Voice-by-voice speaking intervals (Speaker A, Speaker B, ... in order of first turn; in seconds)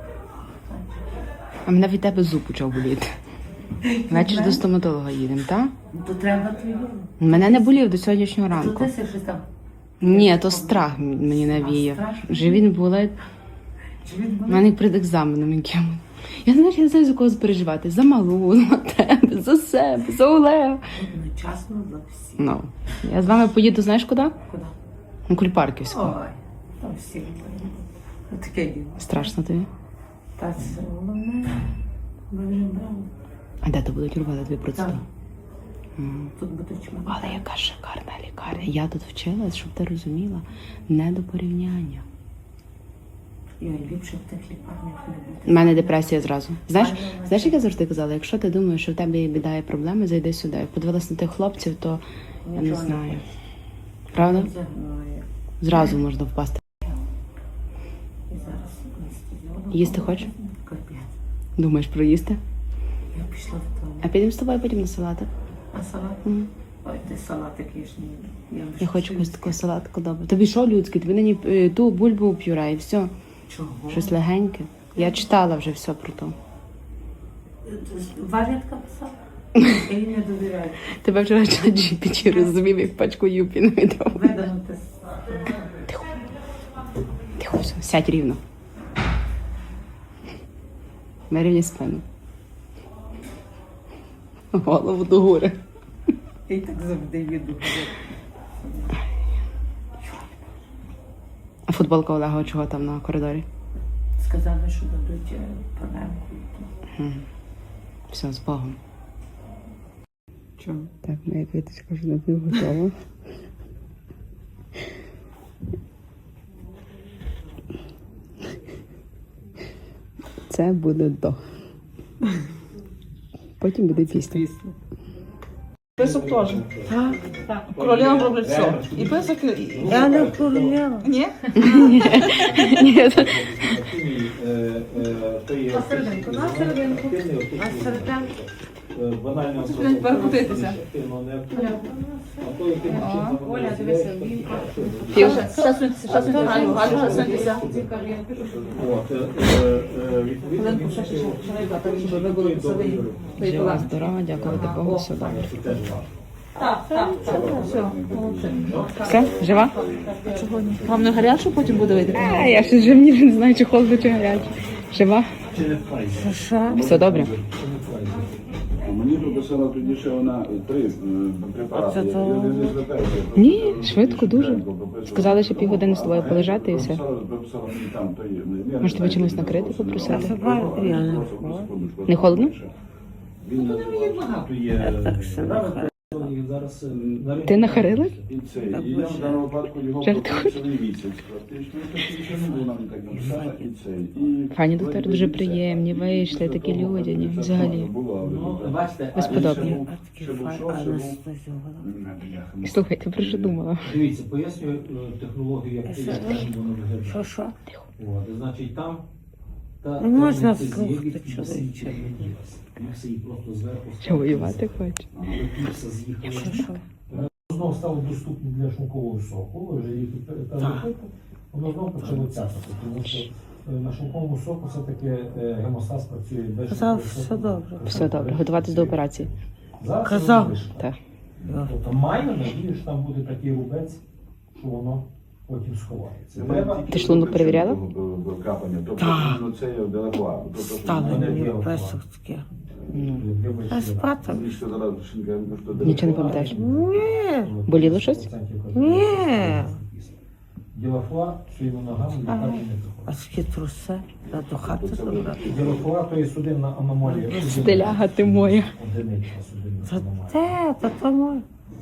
Speaker A: 0.6-1.1, 3.8-4.6, 5.9-7.7, 8.5-9.5, 10.0-12.7, 14.0-14.7, 20.9-22.6, 24.5-24.8, 25.9-29.3, 30.4-31.7, 32.3-33.1, 34.7-35.0, 36.4-37.5, 43.6-46.1, 46.7-47.7, 52.5-53.2, 54.2-56.0, 58.3-61.1, 63.1-64.1, 65.7-66.3, 66.8-69.6, 73.5-74.2, 75.0-75.3, 77.7-80.8, 82.2-82.6, 84.1-85.6, 96.5-97.9, 98.6-99.0, 104.2-106.7, 110.6-110.9, 123.9-124.8, 126.9-127.5, 129.8-131.9, 135.7-138.3, 140.1-140.5, 141.5-148.3, 156.8-157.7, 159.5-161.2, 162.1-162.7, 166.1-166.9, 171.7-172.8, 180.0-181.7, 183.6-186.3, 188.7-189.5, 192.3-194.3, 199.5-201.9, 205.8-207.5, 210.0-212.3, 216.2-216.8, 220.6-220.9, 226.7-228.0, 230.0-230.6, 231.4-231.8, 239.0-239.5, 240.7-242.5, 243.7-244.6, 246.5-247.5, 248.7-249.8, 252.3-255.5, 257.0-257.8, 259.9-261.4
Speaker B: 1.7-3.1, 4.1-5.7, 7.2-8.9, 10.0-13.2, 14.5-20.8, 22.4-24.3, 25.3-26.1, 29.0-29.7, 33.6-35.0, 36.0-36.3, 37.1-42.0, 45.5-52.0, 52.6-53.2, 54.1-54.5, 55.6-56.6, 59.7-60.3, 61.6-62.4, 64.0-65.3, 68.8-73.1, 73.9-76.3, 80.9-84.3, 87.4-88.4, 91.3-92.0, 94.5-95.6, 101.7-103.5, 107.0-107.2, 108.1-108.8, 111.0-112.9, 120.5-121.4, 123.6-124.4, 131.6-133.8, 153.4-155.5, 159.0-159.8, 162.1-165.3, 166.8-167.3, 173.3-177.0, 178.8-180.4, 182.1-182.5, 187.4-188.2, 190.0-190.6, 194.5-197.9, 199.1-199.8, 202.6-204.0, 214.0-215.0, 227.9-229.3, 236.9-237.8, 242.9-243.2, 245.8-246.6, 247.7-248.3, 257.3-258.7
Speaker C: 126.0-126.6, 127.5-129.8, 131.0-132.6, 139.6-140.8, 143.0-143.3, 145.2-148.8, 150.5-153.9, 154.5-155.7, 156.6-162.5
Speaker D: 126.0-130.8, 131.7-148.0, 148.5-156.2, 161.6-162.3, 165.5-166.4, 167.1-168.3, 184.3-188.3, 192.2-192.7, 198.2-199.8, 203.8-207.2, 208.0-209.1, 209.8-230.9, 231.6-234.0, 234.6-236.9, 240.9-242.0, 242.9-244.1, 245.7-250.2, 250.7-253.1, 255.4-260.5
Speaker E: 146.3-147.4, 148.5-148.8, 156.9-161.3, 162.3-162.6, 166.6-167.4, 168.8-182.7, 183.4-184.3, 186.9-187.5, 188.3-201.2, 201.8-203.6, 215.2-215.4, 236.3-241.4, 244.3-246.3, 254.6-255.9